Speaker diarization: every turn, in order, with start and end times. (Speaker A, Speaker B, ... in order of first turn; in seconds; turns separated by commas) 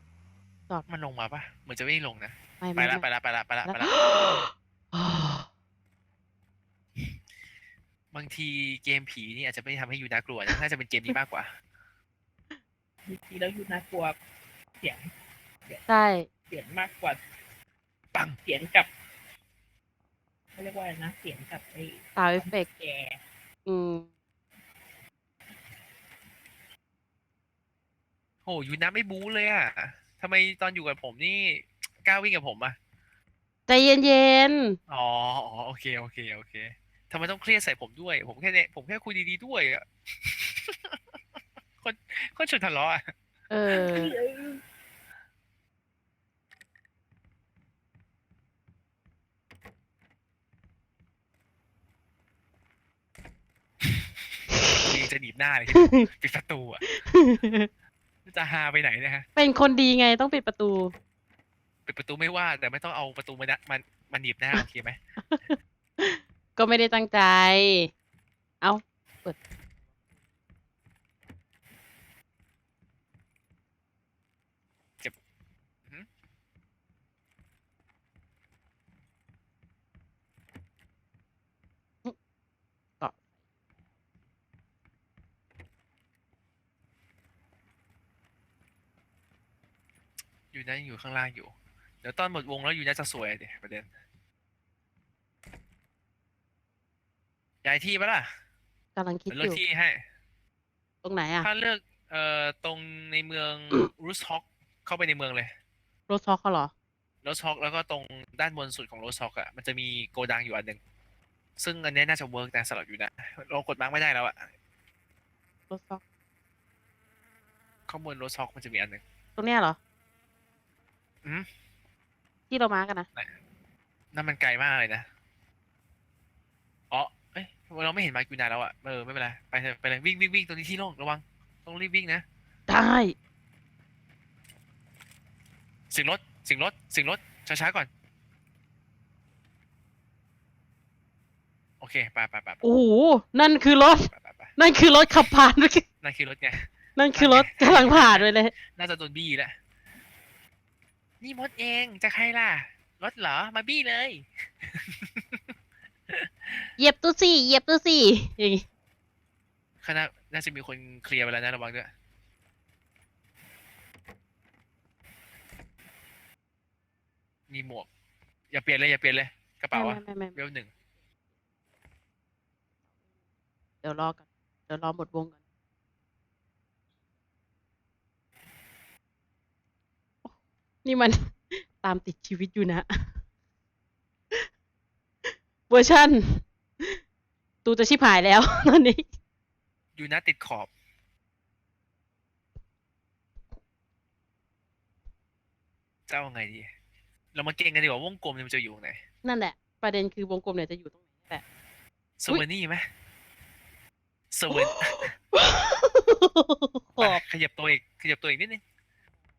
Speaker A: 0.9-4.0, Speaker B: 2.6-3.0, Speaker B: 3.7-5.5, Speaker A: 8.1-11.5, Speaker C: 13.1-14.1, Speaker C: 14.8-15.1, Speaker B: 15.9-16.3, Speaker C: 16.5-17.2, Speaker C: 18.4-18.9, Speaker C: 20.6-23.2, Speaker B: 22.1-22.7, Speaker B: 23.6-24.1, Speaker A: 28.4-32.8, Speaker B: 33.7-34.8, Speaker A: 34.9-41.2, Speaker A: 41.8-43.1, Speaker B: 43.5-44.1, Speaker C: 43.7-44.6, Speaker A: 53.8-54.1, Speaker B: 54.5-54.8, Speaker A: 54.6-56.8, Speaker B: 55.7-56.1, Speaker B: 56.9-57.7, Speaker A: 58.2-59.2, Speaker B: 59.4-60.9, Speaker A: 61.9-65.0, Speaker B: 65.3-67.9, Speaker B: 68.6-69.4, Speaker A: 90.5-91.5, Speaker A: 92.0-93.9, Speaker A: 97.6-98.3, Speaker B: 99.0-99.6, Speaker A: 99.3-100.0, Speaker B: 101.0-101.5, Speaker A: 101.4-105.5, Speaker B: 106.1-106.7, Speaker A: 107.2-110.8, Speaker A: 111.6-114.5, Speaker B: 115.7-116.0, Speaker A: 117.9-119.0, Speaker B: 119.4-119.8, Speaker B: 122.5-123.1, Speaker A: 124.1-125.1, Speaker A: 126.9-132.2, Speaker B: 132.7-133.1, Speaker A: 135.9-137.9, Speaker A: 141.8-142.6, Speaker B: 142.6-145.8, Speaker A: 144.1-144.5, Speaker A: 146.0-146.6, Speaker B: 146.9-148.5, Speaker A: 147.1-149.5, Speaker A: 151.2-155.5, Speaker A: 156.1-156.7, Speaker B: 156.8-158.6, Speaker A: 159.8-161.9, Speaker A: 167.5-167.9, Speaker A: 168.5-170.7, Speaker B: 169.7-170.4, Speaker B: 173.8-175.4, Speaker B: 180.8-183.1, Speaker B: 185.2-187.0, Speaker B: 187.6-189.0, Speaker A: 189.9-190.7, Speaker A: 196.1-196.7, Speaker A: 197.3-199.0, Speaker B: 199.2-201.4, Speaker A: 202.2-202.8, Speaker A: 204.3-205.1, Speaker B: 204.5-207.2, Speaker A: 207.0-208.6